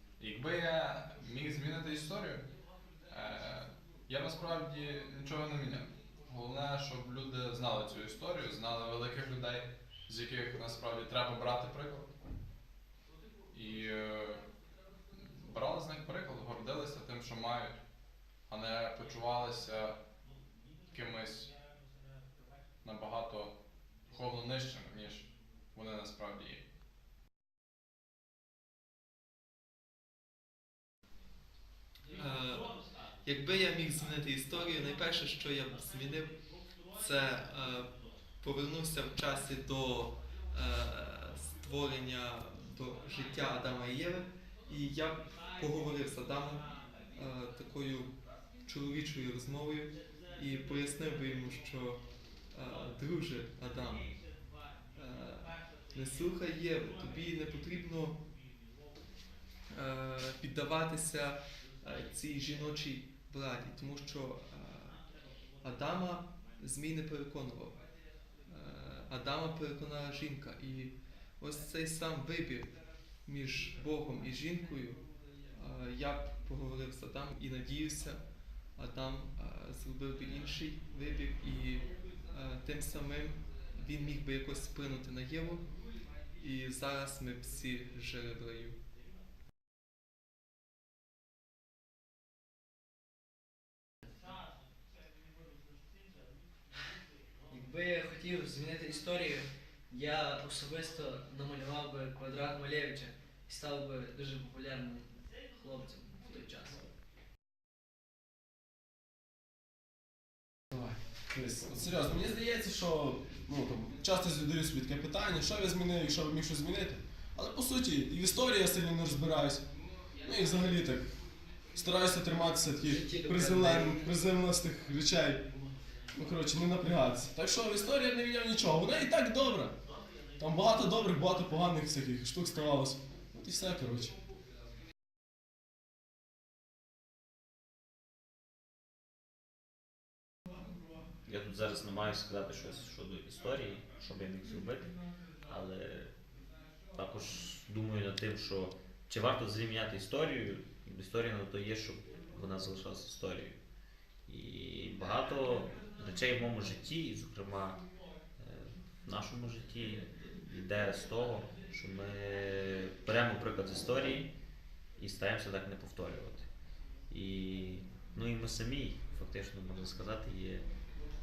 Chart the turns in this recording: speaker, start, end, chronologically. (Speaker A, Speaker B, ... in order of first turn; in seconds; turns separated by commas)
Speaker A: 0.2-2.5, Speaker A: 3.1-12.1, Speaker A: 13.5-14.4, Speaker A: 15.1-17.8, Speaker A: 18.5-20.0, Speaker A: 20.9-21.5, Speaker A: 22.8-23.5, Speaker A: 24.1-26.6, Speaker B: 32.1-36.3, Speaker B: 36.9-48.1, Speaker B: 48.6-54.1, Speaker B: 54.9-58.2, Speaker B: 59.7-65.0, Speaker B: 65.6-67.8, Speaker B: 68.5-72.7, Speaker B: 73.2-78.2, Speaker B: 78.8-85.6, Speaker B: 86.3-88.8, Speaker C: 97.5-106.9, Speaker D: 110.7-119.6, Speaker D: 120.2-121.1, Speaker D: 121.7-125.4, Speaker C: 122.8-124.1, Speaker D: 126.1-129.7, Speaker D: 130.4-134.1, Speaker E: 141.2-144.9, Speaker E: 145.5-146.1, Speaker E: 146.9-153.6, Speaker E: 154.3-157.8, Speaker E: 158.4-164.3, Speaker E: 165.0-166.5, Speaker E: 167.1-170.7